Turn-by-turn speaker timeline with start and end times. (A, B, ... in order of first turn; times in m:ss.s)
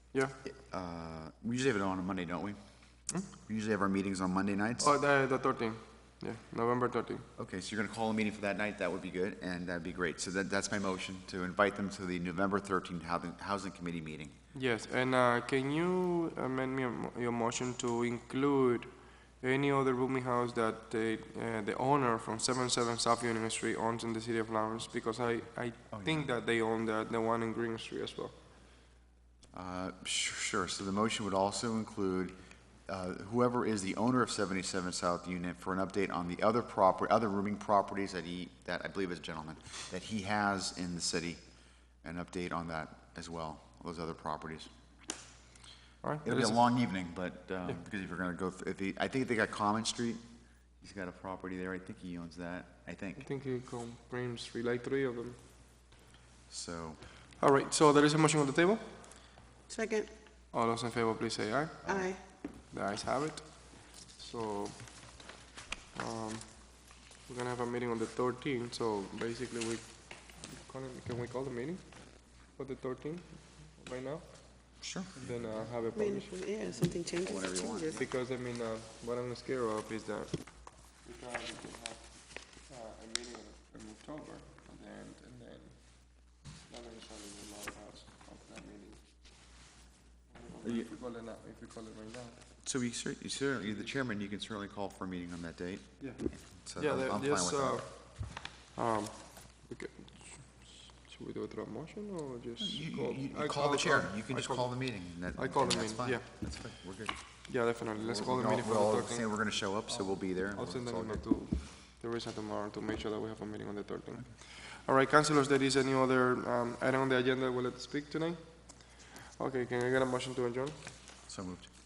0:00.1-0:00.3 A
0:00.4-0:02.6 B
0:03.2-0:05.0 B
0:04.8-0:07.3 A
0:07.4-0:14.4 B
0:14.5-0:28.3 A
0:25.9-0:26.3 B
0:29.5-0:32.3 B
0:32.9-0:41.4 B
0:42.0-0:44.7 B
0:46.0-0:47.0 A
0:46.2-0:50.2 B
0:50.8-0:53.2 B
0:53.2-0:55.4 A
0:56.5-0:57.0 B
0:57.4-0:58.8 A
0:59.7-1:00.1 C
1:00.5-1:05.3 A
1:01.8-1:02.1 B
1:01.8-1:02.2 C
1:05.9-1:17.0 A
1:14.8-1:15.1 B
1:15.9-1:18.0 C
1:17.2-1:18.1 B
1:17.9-1:29.3 A
1:30.3-1:32.4 A
1:30.6-1:30.9 B
1:32.6-1:37.8 B
1:33.6-1:33.9 A
1:36.0-1:46.7 A
1:42.6-1:51.2 B
1:47.3-2:00.8 A
2:01.3-2:01.7 B